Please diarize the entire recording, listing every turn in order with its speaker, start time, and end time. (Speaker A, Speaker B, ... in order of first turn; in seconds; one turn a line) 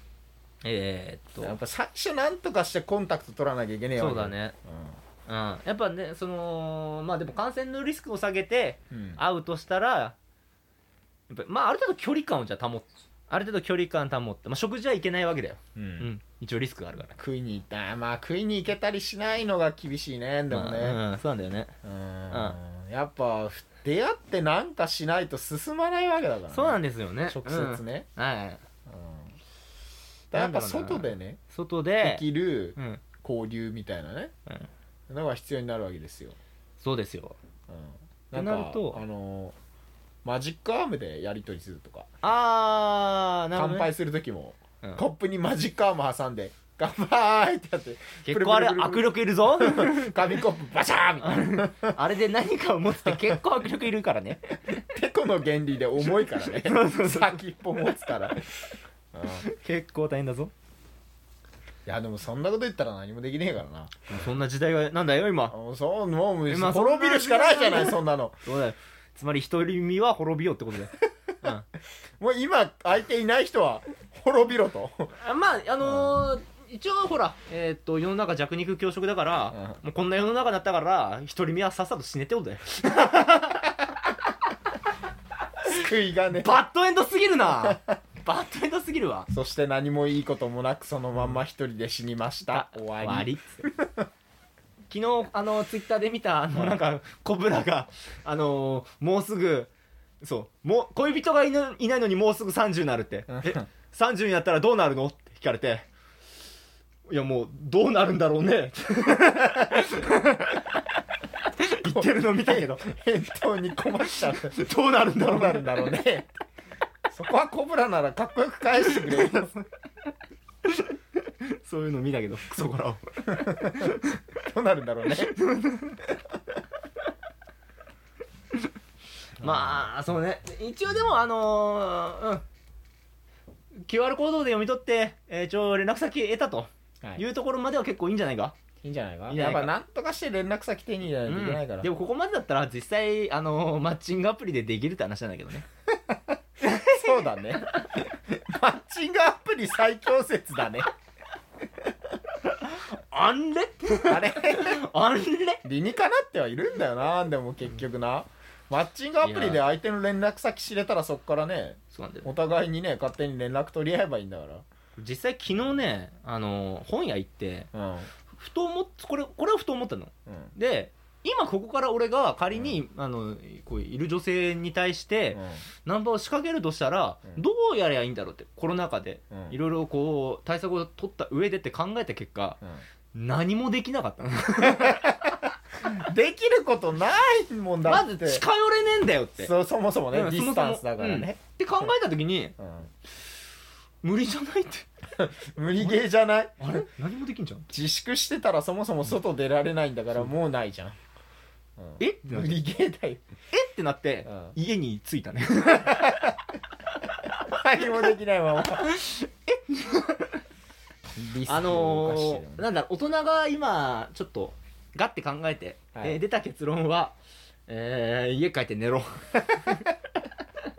Speaker A: 0.6-1.6
Speaker B: 1.4-5.0
Speaker A: 4.0-4.5
Speaker A: 5.3-10.2
Speaker B: 8.9-9.2
Speaker A: 11.3-17.2
Speaker B: 15.7-16.1
Speaker B: 17.2-21.0
Speaker A: 20.5-21.7
Speaker B: 21.8-28.1
Speaker A: 22.3-22.6
Speaker A: 26.5-28.6
Speaker B: 28.9-29.3
Speaker B: 30.3-31.4
Speaker A: 30.3-32.2
Speaker B: 32.0-34.3
Speaker A: 32.8-33.0
Speaker B: 35.1-36.4
Speaker A: 36.8-37.4
Speaker B: 37.7-39.5
Speaker A: 38.3-39.0
Speaker B: 40.2-42.1
Speaker A: 42.2-43.9
Speaker B: 43.5-52.0
Speaker A: 48.2-50.3
Speaker A: 51.2-54.8
Speaker B: 53.0-53.4
Speaker B: 54.8-59.5
Speaker A: 56.1-57.4
Speaker A: 59.4-60.5
Speaker B: 61.9-64.1
Speaker A: 64.1-65.5
Speaker B: 65.5-68.4
Speaker A: 66.5-71.7
Speaker B: 72.2-75.1
Speaker A: 75.2-83.8
Speaker B: 75.8-76.2
Speaker B: 79.5-79.8
Speaker B: 85.6-86.5
Speaker A: 86.3-89.3
Speaker B: 87.5-88.0
Speaker B: 89.3-94.1
Speaker A: 92.5-93.7
Speaker A: 94.9-99.7
Speaker A: 100.2-105.9
Speaker B: 103.3-103.7
Speaker A: 107.1-110.8
Speaker A: 111.4-112.8
Speaker B: 111.8-116.3
Speaker A: 114.3-115.9
Speaker B: 117.1-119.5
Speaker A: 118.9-119.6
Speaker A: 120.6-124.2
Speaker B: 123.3-125.4
Speaker A: 125.1-126.2
Speaker A: 129.4-132.4
Speaker B: 129.4-129.9
Speaker A: 133.8-138.6
Speaker B: 138.8-141.9
Speaker A: 139.3-139.7
Speaker A: 141.2-145.7
Speaker B: 146.1-150.9
Speaker A: 146.6-148.0
Speaker A: 152.4-155.6
Speaker B: 154.0-154.8
Speaker B: 155.6-164.6
Speaker A: 159.2-159.6
Speaker A: 161.9-162.3
Speaker A: 165.0-167.7
Speaker B: 167.7-168.1
Speaker A: 168.3-182.6
Speaker B: 170.3-170.5
Speaker B: 172.5-172.8
Speaker B: 175.3-175.6
Speaker B: 179.3-179.6
Speaker A: 183.1-185.3
Speaker B: 184.6-188.4
Speaker A: 187.8-189.5
Speaker B: 189.4-191.9
Speaker A: 190.1-192.5
Speaker B: 192.6-192.9
Speaker A: 194.0-194.9
Speaker B: 195.2-196.8
Speaker A: 196.6-197.7
Speaker B: 197.7-201.0
Speaker B: 201.8-203.2
Speaker A: 202.0-202.6
Speaker A: 203.5-206.3
Speaker B: 204.2-204.5
Speaker B: 205.8-206.3
Speaker B: 207.4-208.9
Speaker A: 208.7-210.4
Speaker B: 211.2-212.6
Speaker A: 211.4-217.2
Speaker A: 217.7-219.9